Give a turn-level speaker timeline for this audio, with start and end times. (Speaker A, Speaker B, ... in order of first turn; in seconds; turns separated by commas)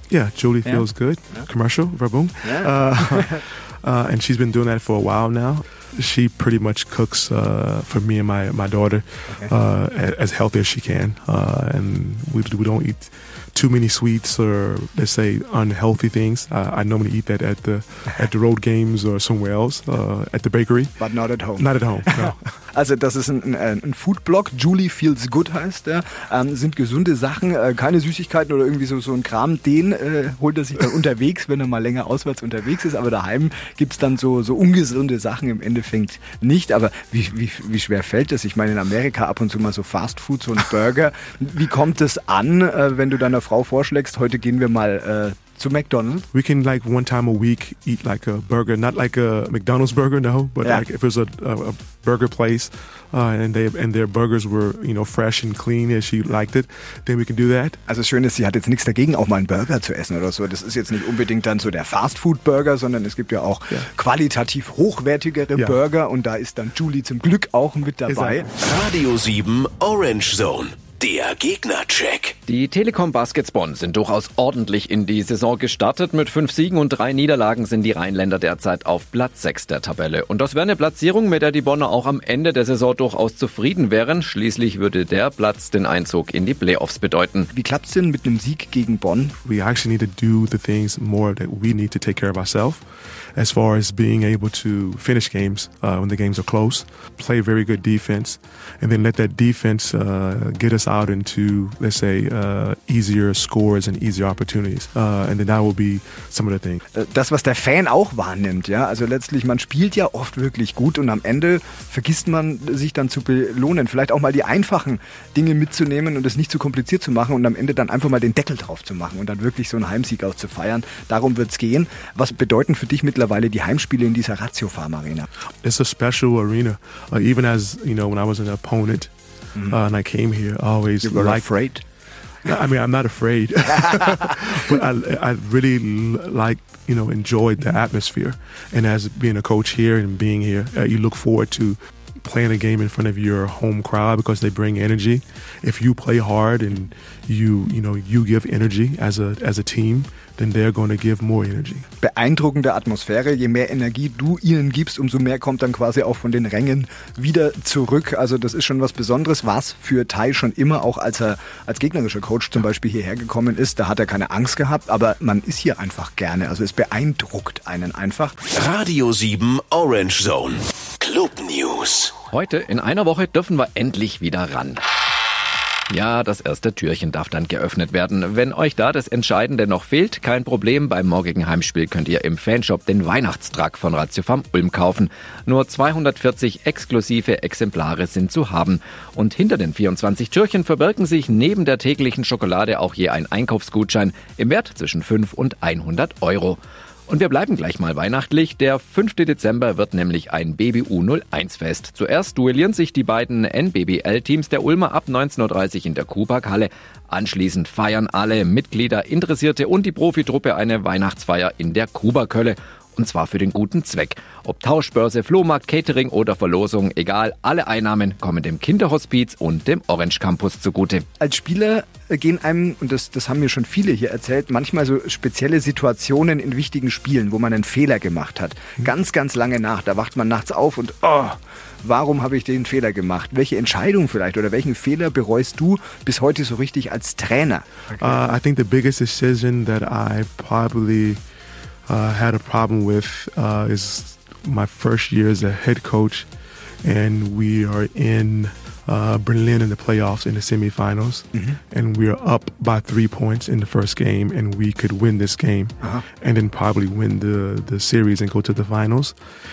Speaker A: 0.1-21.0, Speaker B: 2.4-3.4, Speaker B: 21.0-46.3, Speaker A: 21.6-22.5, Speaker A: 46.3-57.8, Speaker B: 57.9-68.5, Speaker A: 68.1-68.5, Speaker C: 68.6-72.4, Speaker D: 72.5-87.5, Speaker B: 87.5-89.3, Speaker A: 89.4-92.8, Speaker A: 93.4-106.8, Speaker B: 107.0-125.3, Speaker A: 125.6-129.1, Speaker A: 129.7-131.5, Speaker B: 131.0-131.8, Speaker A: 132.4-151.9, Speaker B: 152.0-168.4, Speaker C: 168.5-172.2, Speaker D: 172.3-174.8, Speaker D: 175.9-221.1, Speaker B: 221.2-238.3, Speaker A: 238.0-241.2, Speaker A: 241.9-246.3, Speaker A: 246.8-259.2